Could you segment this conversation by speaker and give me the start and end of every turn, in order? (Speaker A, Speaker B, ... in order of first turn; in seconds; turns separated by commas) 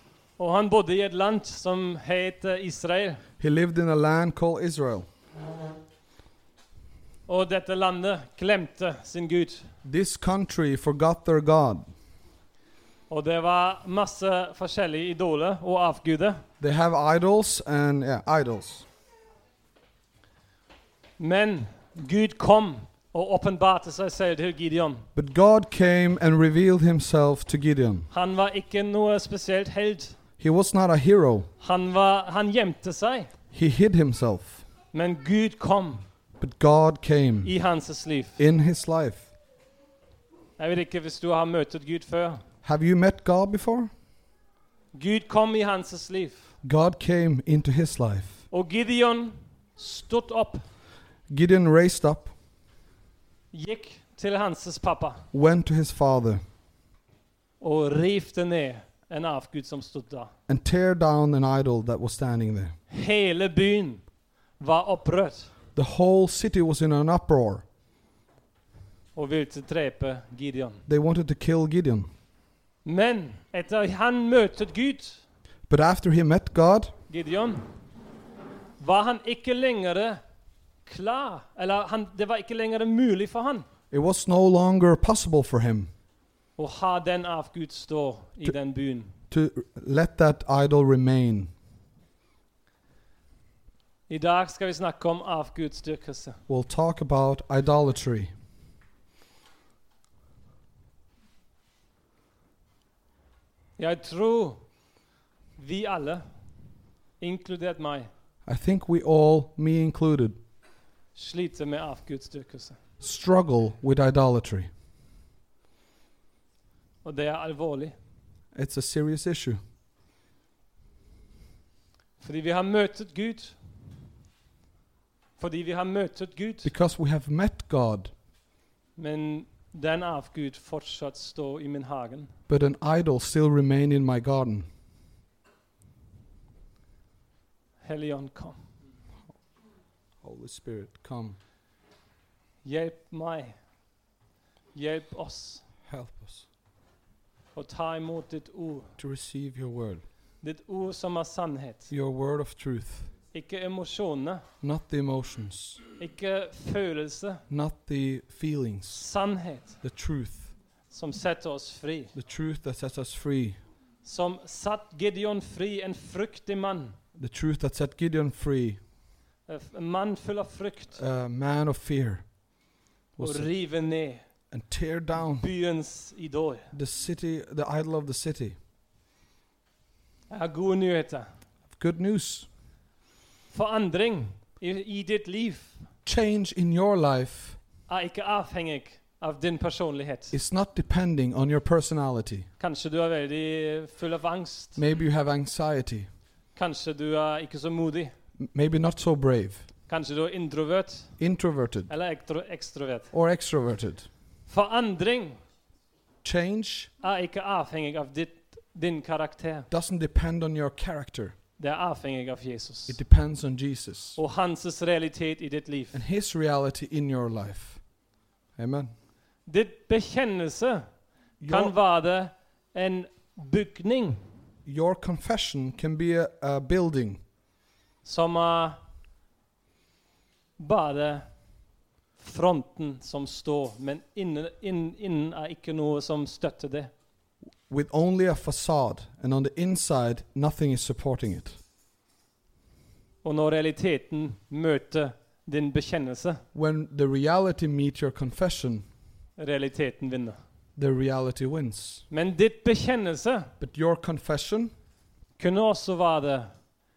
Speaker A: 0.4-3.2, Speaker B: 3.4-5.1, Speaker A: 7.3-9.7, Speaker B: 9.8-11.9, Speaker A: 13.1-16.4, Speaker B: 16.6-18.9, Speaker A: 21.2-25.1, Speaker B: 25.1-28.1, Speaker A: 28.1-30.2, Speaker B: 30.4-31.5, Speaker A: 31.6-33.3, Speaker B: 33.5-34.6, Speaker A: 34.9-36.1, Speaker B: 36.4-37.5, Speaker A: 37.4-38.4, Speaker B: 38.4-39.3, Speaker A: 40.6-42.4, Speaker B: 42.6-43.9, Speaker A: 44.9-46.5, Speaker B: 46.6-48.4, Speaker A: 48.5-50.6, Speaker B: 51.3-52.3, Speaker A: 53.5-55.2, Speaker B: 55.3-56.4, Speaker A: 57.6-60.3, Speaker B: 60.5-62.7, Speaker A: 62.9-64.0, Speaker A: 64.6-65.5, Speaker B: 65.7-67.6, Speaker A: 69.1-70.8, Speaker B: 70.9-72.1, Speaker A: 72.8-75.2, Speaker B: 75.7-76.9, Speaker A: 77.1-77.8, Speaker A: 78.8-80.2, Speaker A: 80.8-83.7, Speaker B: 83.9-85.9, Speaker A: 86.6-89.1, Speaker B: 89.3-91.5, Speaker A: 94.1-96.4, Speaker B: 96.5-98.3, Speaker A: 103.8-104.6, Speaker A: 105.6-106.3, Speaker A: 107.2-108.1, Speaker B: 108.5-110.4, Speaker A: 111.1-112.8, Speaker B: 113.0-114.7, Speaker A: 117.0-118.0, Speaker B: 118.5-119.6, Speaker A: 122.2-123.5, Speaker A: 125.4-126.7, Speaker B: 126.6-128.1, Speaker A: 128.9-132.3, Speaker B: 132.5-134.7, Speaker A: 137.8-138.6, Speaker B: 140.2-141.4, Speaker A: 142.6-143.6, Speaker A: 144.7-145.7, Speaker B: 145.9-146.4, Speaker A: 147.5-148.9, Speaker B: 149.0-150.0, Speaker A: 150.4-151.9, Speaker B: 151.9-153.1, Speaker A: 153.3-154.4, Speaker B: 154.6-155.8, Speaker A: 156.0-157.4, Speaker B: 157.5-159.1, Speaker A: 158.9-159.8, Speaker B: 159.8-160.5, Speaker A: 160.9-162.1, Speaker B: 162.1-163.6, Speaker A: 164.0-167.0, Speaker B: 167.2-168.8, Speaker A: 169.5-171.0, Speaker B: 170.9-172.3, Speaker B: 173.2-173.5, Speaker A: 173.2-174.2, Speaker B: 174.5-175.5, Speaker A: 175.2-176.7, Speaker B: 176.7-178.6, Speaker A: 180.3-181.3, Speaker B: 181.7-182.5, Speaker A: 183.5-185.8, Speaker B: 186.0-187.6, Speaker A: 187.9-190.4, Speaker B: 190.3-192.5, Speaker A: 192.6-194.8, Speaker B: 194.8-196.1, Speaker A: 196.5-198.1, Speaker B: 198.4-199.7, Speaker A: 199.9-201.2, Speaker B: 201.2-201.9, Speaker A: 201.9-203.1, Speaker B: 203.1-204.1, Speaker A: 204.5-205.4, Speaker B: 206.2-206.9, Speaker A: 207.0-209.7, Speaker B: 209.7-211.3, Speaker A: 211.6-213.0, Speaker B: 212.9-214.2, Speaker A: 214.2-216.0, Speaker B: 215.9-217.8, Speaker B: 218.5-218.9, Speaker A: 219.4-224.3, Speaker B: 221.4-221.8, Speaker B: 224.7-227.2, Speaker A: 228.0-228.8, Speaker A: 230.6-231.3, Speaker A: 232.2-236.9, Speaker B: 237.7-241.6, Speaker A: 243.2-246.4, Speaker B: 246.5-248.8, Speaker A: 249.4-250.4, Speaker B: 250.8-252.1, Speaker A: 252.1-253.5, Speaker B: 253.6-254.7, Speaker A: 255.4-256.5